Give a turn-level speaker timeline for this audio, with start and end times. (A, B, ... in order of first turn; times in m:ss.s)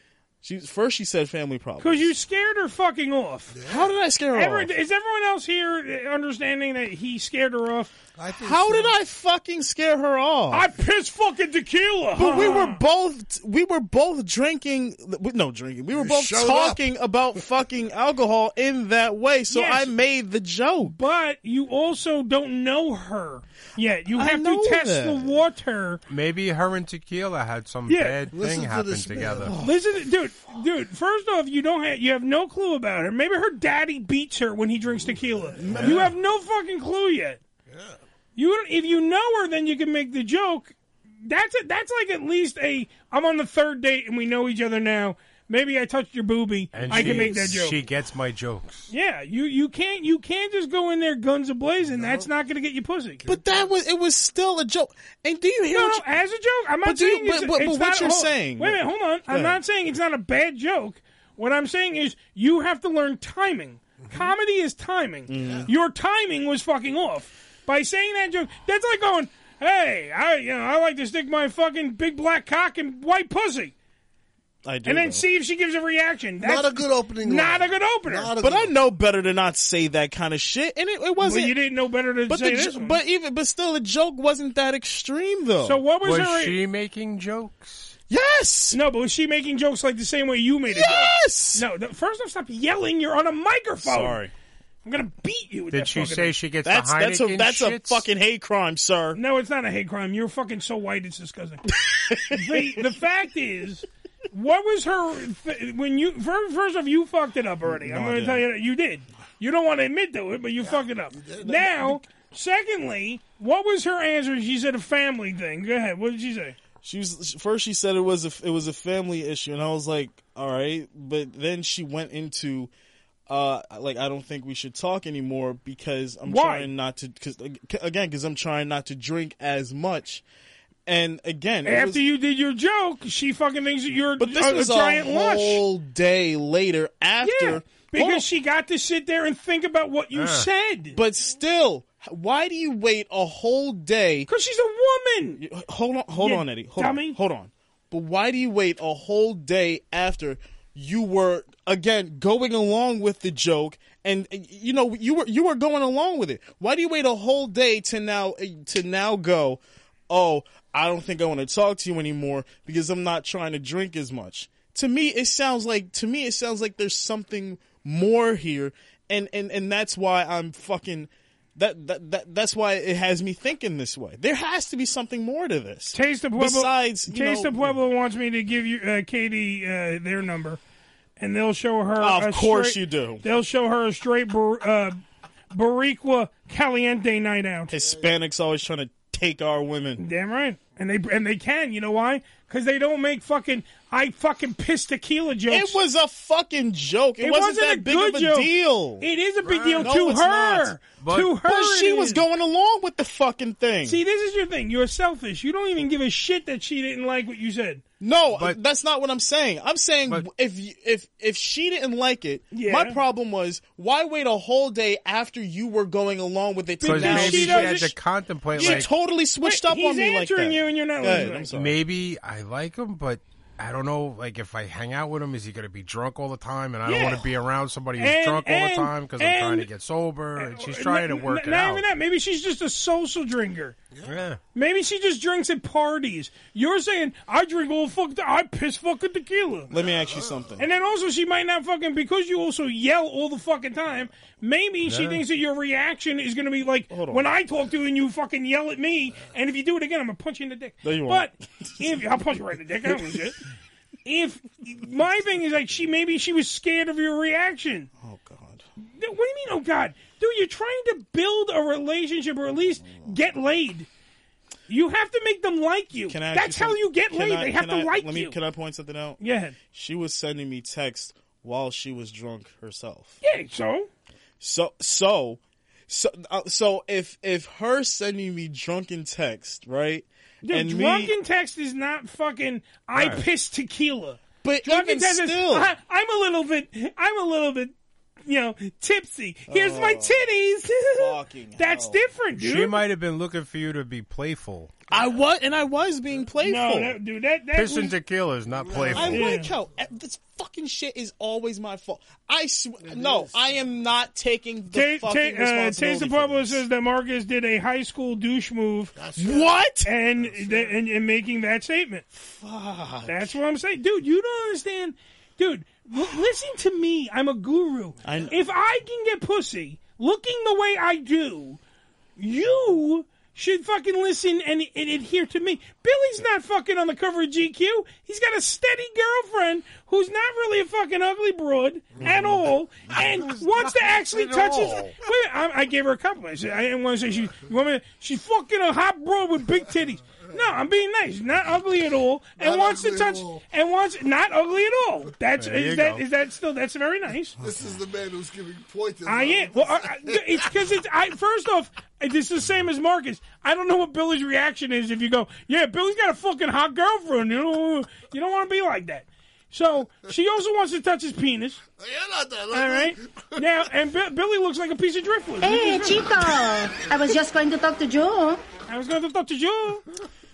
0:00.4-0:02.1 A
0:01.8-0:03.6 B
0:03.5-0:03.9 C
0:03.6-0:04.7 A
0:04.3-0:07.9 B
0:08.2-0:09.0 C
0:08.4-0:10.7 A
0:10.5-0:12.8 B
0:12.2-0:21.0 A
0:15.9-0:16.8 C
0:19.5-0:19.9 B
0:20.8-0:26.0 B
0:24.1-0:25.4 A
0:26.1-0:29.6 D
0:27.9-0:28.2 B
0:28.3-0:29.5 C
0:29.4-0:29.9 A
0:29.6-0:37.4 B
0:35.6-0:36.1 A
0:35.6-0:36.0 C
0:37.7-0:38.0 C
0:38.4-0:40.7 B
0:41.2-0:47.8 B
0:46.7-0:48.9 D
0:46.9-0:47.4 A
0:48.9-0:53.2 B
0:51.8-0:52.3 C
0:53.2-0:53.7 C
0:53.3-0:56.0 A
0:55.7-1:13.7 B
0:56.8-0:59.6 A
1:05.3-1:05.7 A
1:14.6-1:15.2 A
1:14.8-1:18.3 B
1:16.4-1:18.8 C
1:18.4-1:21.6 A
1:21.2-1:23.0 B
1:22.3-1:25.8 A
1:25.6-1:26.6 B
1:26.0-1:27.9 D
1:28.1-1:28.8 A
1:28.7-1:34.2 B
1:30.7-1:31.6 A
1:33.8-1:34.3 A
1:34.8-1:36.3 B
1:35.7-1:38.1 D
1:36.6-1:39.2 A
1:39.1-1:41.7 B
1:41.8-1:42.7 A
1:42.2-1:56.6 B
1:47.7-1:48.5 A
1:50.6-1:51.6 C
1:56.8-2:02.7 A
2:03.3-2:10.2 A
2:06.2-2:06.7 B
2:10.8-2:12.0 A
2:11.6-2:15.6 B
2:14.2-2:18.3 A
2:17.2-2:21.0 B
2:20.1-2:20.5 D
2:20.9-2:24.3 A
2:24.3-2:25.4 B
2:25.4-2:57.8 A
2:26.1-2:27.2 B
2:55.9-3:00.6 B
3:01.2-3:05.0 B
3:02.0-3:03.2 A
3:05.5-3:07.7 B
3:07.7-3:10.0 A
3:10.0-3:15.8 B
3:15.5-3:19.0 A
3:17.2-3:22.2 B
3:19.8-3:20.8 A
3:21.0-3:21.3 D
3:21.3-3:24.0 A
3:23.8-3:27.8 B
3:28.0-3:37.9 A
3:28.3-3:28.6 D
3:32.5-3:33.0 B
3:36.8-3:37.9 B
3:36.8-3:38.9 D
3:38.5-3:41.8 A
3:38.6-3:38.9 B
3:39.4-3:41.6 B
3:41.5-3:51.8 D
3:46.8-3:47.2 B
3:48.0-3:49.7 B
3:50.4-3:53.8 B
3:53.9-3:54.2 C
3:54.0-3:54.4 D
3:54.5-3:59.7 B
3:59.7-4:00.7 A
3:59.8-4:00.5 C
4:00.6-4:13.4 B
4:04.8-4:05.2 D
4:06.9-4:07.3 A
4:10.8-4:11.4 A
4:14.0-4:17.9 B
4:18.0-4:18.6 A
4:18.8-4:23.9 B
4:22.6-4:23.3 A
4:24.7-4:28.4 B
4:26.1-4:33.2 A
4:29.2-4:29.6 B
4:33.2-4:33.9 B
4:34.4-4:41.1 A
4:40.4-4:47.7 B
4:42.9-4:43.2 D
4:44.4-4:45.7 A
4:48.2-4:52.8 B
4:49.5-4:50.3 A
4:50.9-4:52.1 A
4:52.4-4:54.8 D
4:54.9-4:57.0 A
4:56.4-4:58.0 B
4:57.5-4:59.3 D
4:58.6-4:59.2 C
4:58.9-5:06.6 A
4:59.1-4:59.5 B
5:02.8-5:03.5 C
5:04.7-5:09.0 B
5:08.9-5:09.6 C
5:09.2-5:09.9 A
5:09.8-5:12.0 B
5:10.1-5:10.8 C
5:12.1-5:13.3 A
5:13.0-5:21.6 B
5:18.0-5:18.3 A
5:22.2-5:47.3 B
5:32.0-5:33.4 A
5:34.1-5:34.9 A
5:42.4-5:43.4 C
5:45.4-5:46.0 D
5:47.4-5:50.5 C
5:49.0-6:01.6 B
6:01.8-6:03.4 C
6:02.5-6:06.3 B
6:05.4-6:08.4 E
6:08.7-6:09.8 B